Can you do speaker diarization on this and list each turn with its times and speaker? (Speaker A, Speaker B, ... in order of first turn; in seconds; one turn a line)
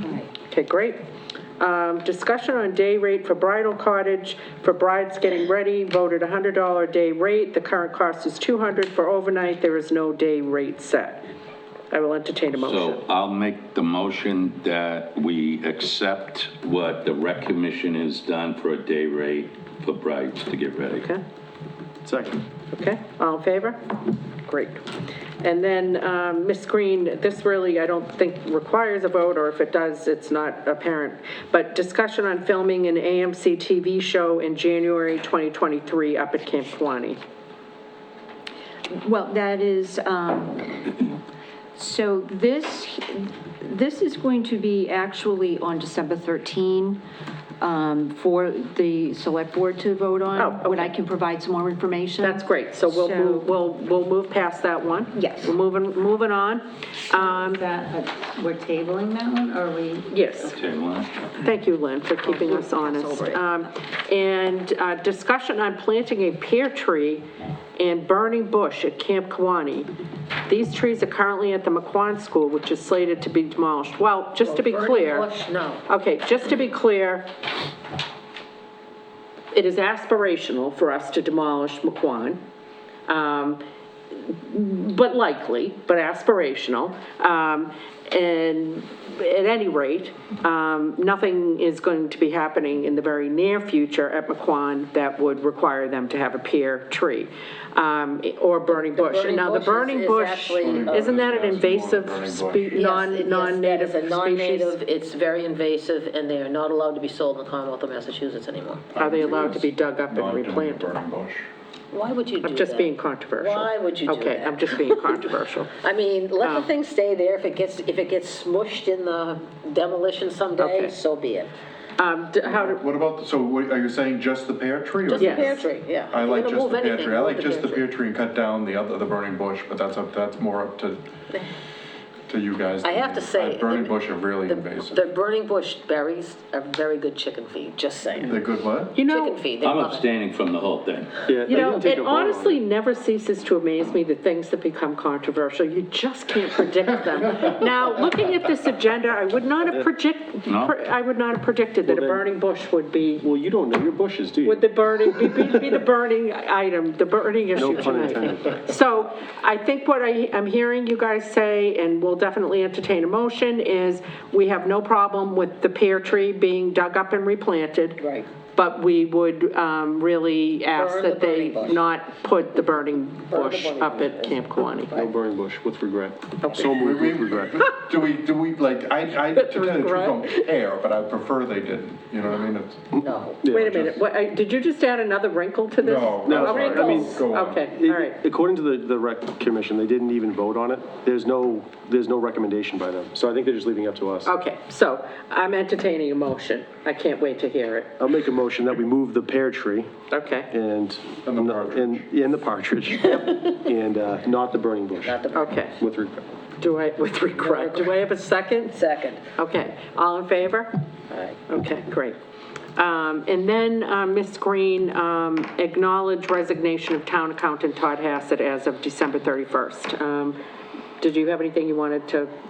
Speaker A: 0.4-1.0
Speaker A: 1.6-11.2
Speaker A: 11.9-13.0
Speaker B: 12.5-21.1
Speaker C: 22.0-22.4
Speaker A: 22.7-23.8
Speaker A: 24.4-24.8
Speaker A: 25.4-37.2
Speaker D: 39.0-41.1
Speaker D: 41.8-47.0
Speaker D: 47.6-53.5
Speaker A: 50.4-50.9
Speaker A: 52.2-57.7
Speaker D: 55.1-55.6
Speaker E: 57.2-60.0
Speaker A: 60.1-60.6
Speaker B: 60.5-61.1
Speaker A: 61.4-67.2
Speaker D: 62.2-63.5
Speaker A: 67.8-69.9
Speaker A: 70.5-75.3
Speaker F: 74.4-75.8
Speaker A: 75.9-77.3
Speaker A: 79.5-82.4
Speaker A: 83.1-83.6
Speaker A: 84.1-104.8
Speaker F: 98.7-101.1
Speaker G: 100.6-102.7
Speaker F: 102.7-108.9
Speaker G: 108.9-111.5
Speaker A: 109.0-111.0
Speaker F: 111.9-115.2
Speaker A: 112.4-115.7
Speaker F: 115.8-121.5
Speaker A: 116.4-116.7
Speaker A: 120.6-121.0
Speaker A: 122.0-122.8
Speaker G: 122.4-131.0
Speaker F: 125.0-127.9
Speaker A: 125.2-125.6
Speaker G: 132.3-135.0
Speaker F: 132.8-138.4
Speaker G: 138.2-139.0
Speaker A: 138.9-139.4
Speaker F: 139.0-140.1
Speaker B: 139.6-141.2
Speaker C: 141.2-142.6
Speaker A: 141.5-153.2
Speaker B: 150.5-150.7
Speaker C: 151.8-152.2
Speaker C: 153.2-155.5
Speaker A: 154.4-168.0
Speaker C: 157.5-158.6
Speaker F: 168.0-168.3
Speaker A: 168.5-174.9
Speaker F: 170.7-171.8
Speaker F: 173.3-175.1
Speaker C: 174.9-177.7
Speaker G: 176.5-182.9
Speaker A: 179.3-180.5
Speaker C: 182.9-183.9
Speaker F: 183.0-183.4
Speaker A: 183.5-188.2
Speaker G: 185.8-187.7
Speaker C: 186.2-194.3
Speaker A: 194.2-197.9
Speaker C: 198.0-199.9
Speaker A: 200.1-200.5
Speaker C: 200.5-205.2
Speaker G: 201.2-202.1
Speaker F: 205.0-205.6
Speaker A: 205.3-205.7
Speaker C: 205.8-206.2
Speaker A: 206.6-208.8
Speaker F: 207.4-207.9
Speaker F: 208.7-209.2
Speaker A: 209.3-210.7
Speaker F: 211.1-211.4
Speaker A: 211.5-212.2
Speaker A: 212.8-220.4
Speaker A: 221.0-222.3